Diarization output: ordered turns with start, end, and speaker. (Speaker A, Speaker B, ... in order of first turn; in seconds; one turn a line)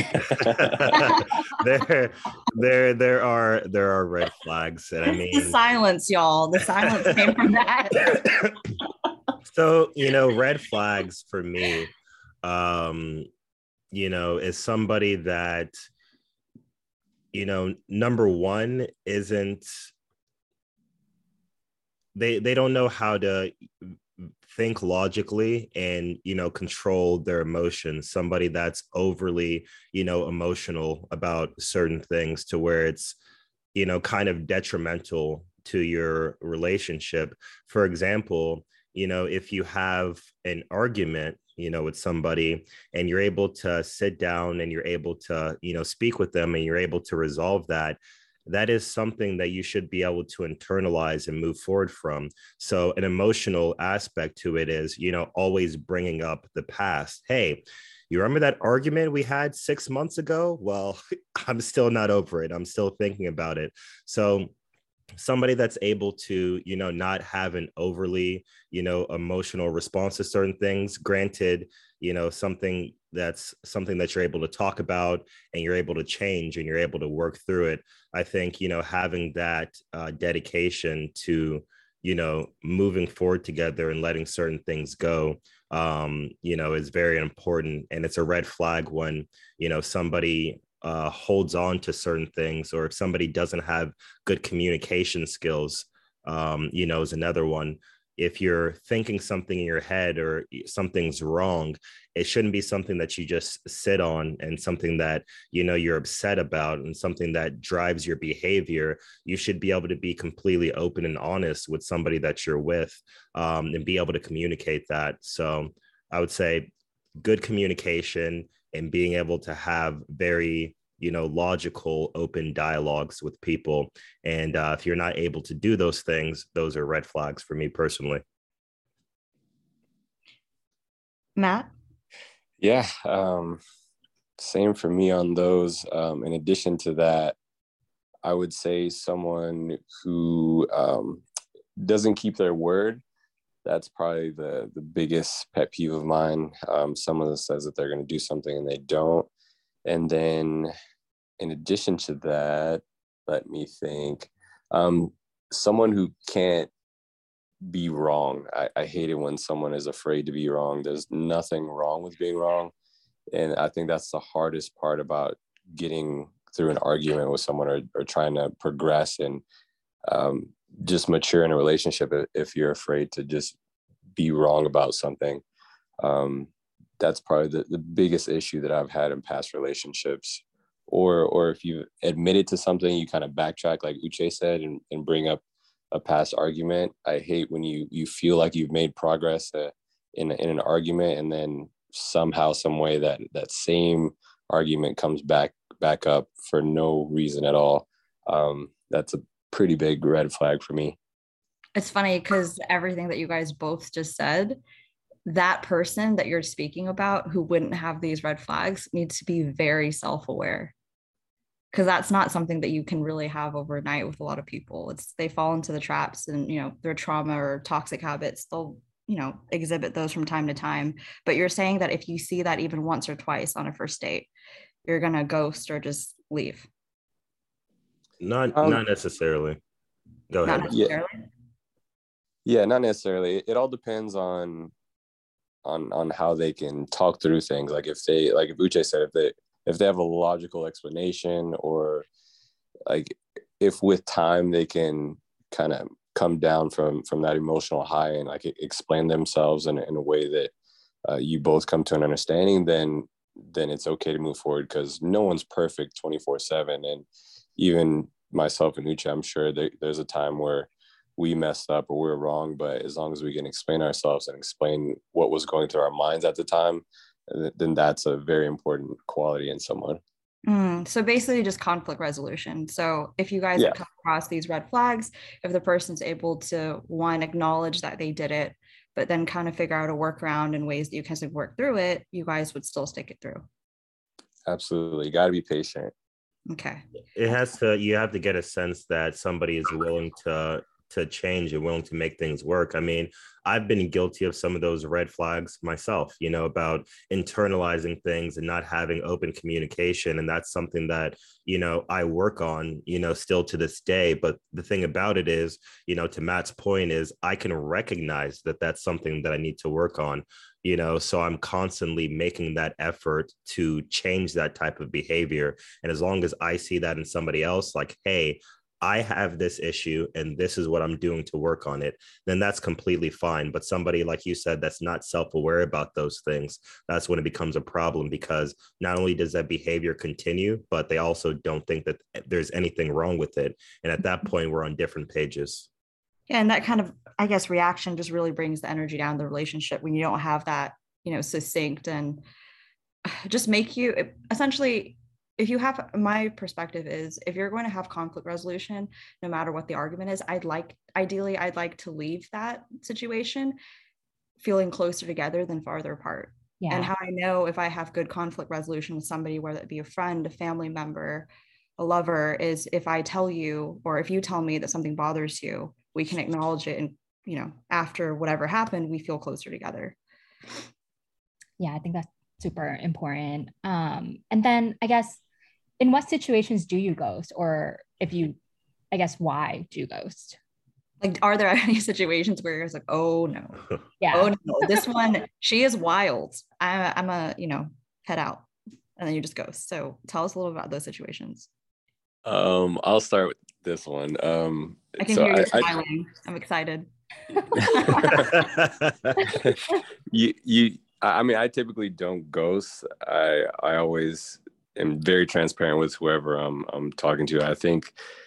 Speaker A: 0.2-0.7
Speaker B: 0.3-5.6
Speaker C: 0.8-1.4
Speaker C: 5.2-8.2
Speaker B: 7.0-7.3
Speaker B: 8.0-8.6
Speaker B: 9.4-11.9
Speaker B: 12.4-13.3
Speaker B: 13.9-15.7
Speaker B: 17.3-19.9
Speaker B: 22.1-23.6
Speaker B: 24.4-33.2
Speaker B: 33.8-64.5
Speaker B: 65.2-128.2
Speaker C: 131.4-131.7
Speaker A: 132.6-133.6
Speaker A: 134.4-137.4
Speaker A: 138.2-141.2
Speaker A: 141.8-143.0
Speaker A: 143.7-149.3
Speaker A: 149.9-150.7
Speaker A: 151.4-156.7
Speaker A: 157.6-162.7
Speaker A: 163.3-169.4
Speaker A: 170.1-173.6
Speaker A: 174.2-175.4
Speaker A: 176.0-176.5
Speaker A: 177.0-201.0
Speaker C: 201.8-204.6
Speaker C: 205.3-210.7
Speaker C: 211.7-224.3
Speaker C: 224.8-226.7
Speaker B: 228.2-229.6
Speaker A: 228.6-228.8
Speaker B: 230.3-230.7
Speaker C: 230.4-231.2
Speaker A: 230.7-231.0
Speaker A: 232.4-234.7
Speaker A: 235.6-242.1
Speaker A: 242.9-250.5
Speaker A: 251.1-257.1
Speaker A: 257.6-270.0
Speaker C: 270.5-283.4
Speaker A: 284.5-285.9
Speaker C: 286.5-286.8
Speaker B: 287.1-335.7
Speaker C: 336.3-342.2
Speaker C: 343.1-353.6
Speaker C: 354.4-370.0
Speaker D: 356.6-356.9
Speaker D: 371.6-375.2
Speaker D: 375.8-378.4
Speaker D: 378.9-380.4
Speaker C: 381.0-391.5
Speaker D: 384.0-384.8
Speaker A: 392.2-395.7
Speaker C: 395.0-396.9
Speaker C: 397.5-398.5
Speaker A: 397.6-398.5
Speaker B: 398.2-399.2
Speaker A: 399.3-407.9